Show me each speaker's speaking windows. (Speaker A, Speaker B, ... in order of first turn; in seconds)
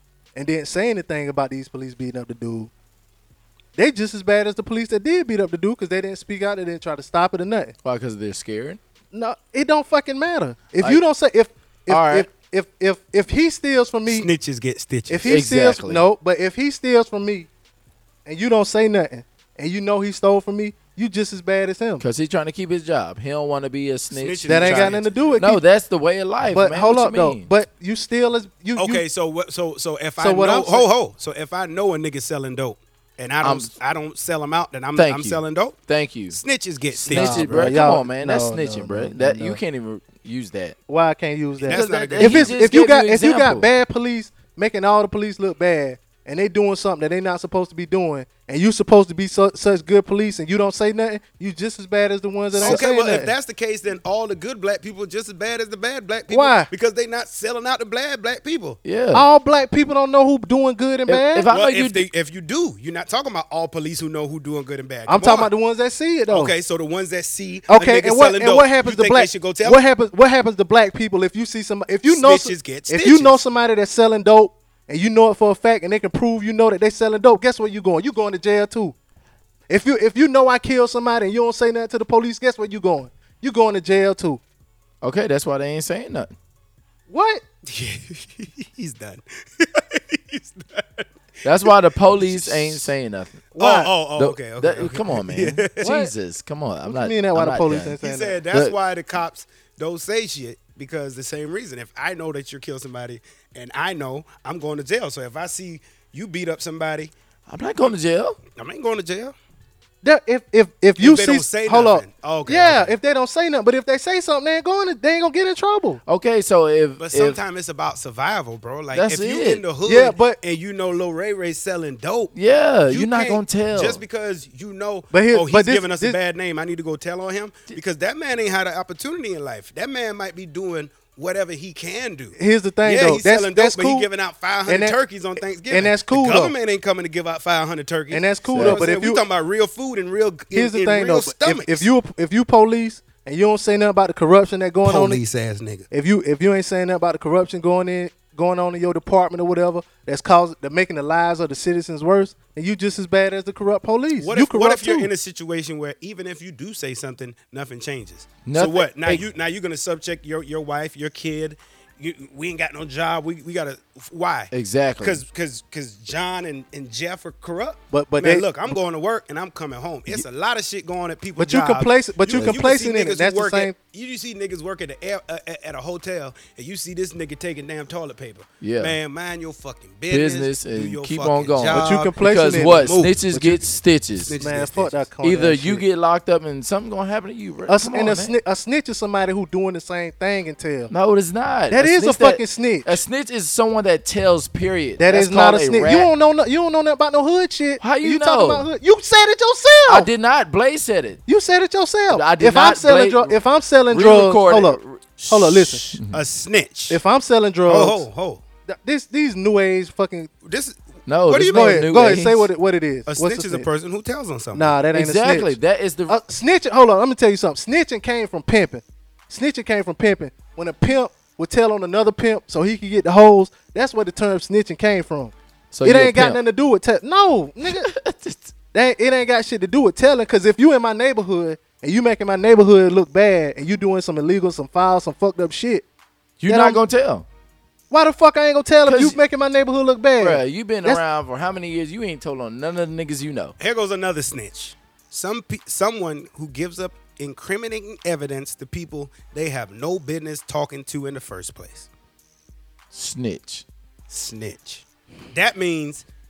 Speaker A: 0.3-2.7, 3.8-7.8, 9.1-14.3, 15.1-17.5, 18.3-22.1, 24.5-25.6, 26.5-29.0, 30.2-30.9, 37.1-39.6, 40.9-53.3, 56.3-56.7, 59.1-61.5, 65.1-66.5, 67.7-79.0, 79.7-84.4, 87.1-87.4, 93.6-93.9, 95.8-96.1, 96.8-98.4, 110.0-116.0, 119.8-120.4, 125.1-126.2, 132.4-134.1, 134.7-135.0, 135.7-136.6, 138.1-139.2, 140.5-145.2, 145.9-155.1, 167.9-168.8, 171.4-173.8, 181.7-183.6, 184.3-185.8, 187.7-190.9, 191.7-193.0, 195.0-200.1, 201.3-205.9, 206.9-208.1, 208.7-210.3, 211.5-213.7, 214.5-215.6, 216.1-227.9, 228.7-235.8, 236.5-236.8, 237.9-241.0
Speaker B: 7.8-8.8, 10.8-11.0, 11.9-12.3, 15.3-16.1, 22.0-27.5, 33.4-33.7, 35.0-36.4, 37.0-40.8, 41.7-43.7, 58.8-59.3, 61.1-62.1, 85.0-86.3, 91.4-93.4, 94.2-98.0, 98.5-98.8, 107.5-108.4, 116.1-117.4, 118.9-119.7, 122.3-124.0, 138.5-138.9, 158.4-159.3, 164.5-165.2, 172.3-172.6, 178.6-179.0, 180.1-184.3, 185.2-188.4, 190.9-196.1, 197.8-198.7, 199.9-201.2, 202.1-206.2, 211.1-212.5, 214.9-216.2, 225.7-226.4, 227.6-228.5, 236.4-237.3, 238.9-239.2, 240.2-243.6, 252.9-253.7
Speaker C: 14.1-15.3, 24.1-25.4, 28.8-35.8, 36.3-37.7, 41.6-42.6, 52.5-58.8, 61.5-65.5, 66.3-69.8, 72.1-73.4, 87.7-91.1, 91.6-92.9, 93.6-95.8, 98.0-107.1, 108.6-109.3, 111.0-112.9, 117.0-122.3, 122.9-141.9, 144.8-145.9, 154.2-183.2, 184.2-185.1, 206.1-207.0, 207.7-208.4, 210.4-211.8, 213.1-214.8, 243.6-251.9, 254.1-256.1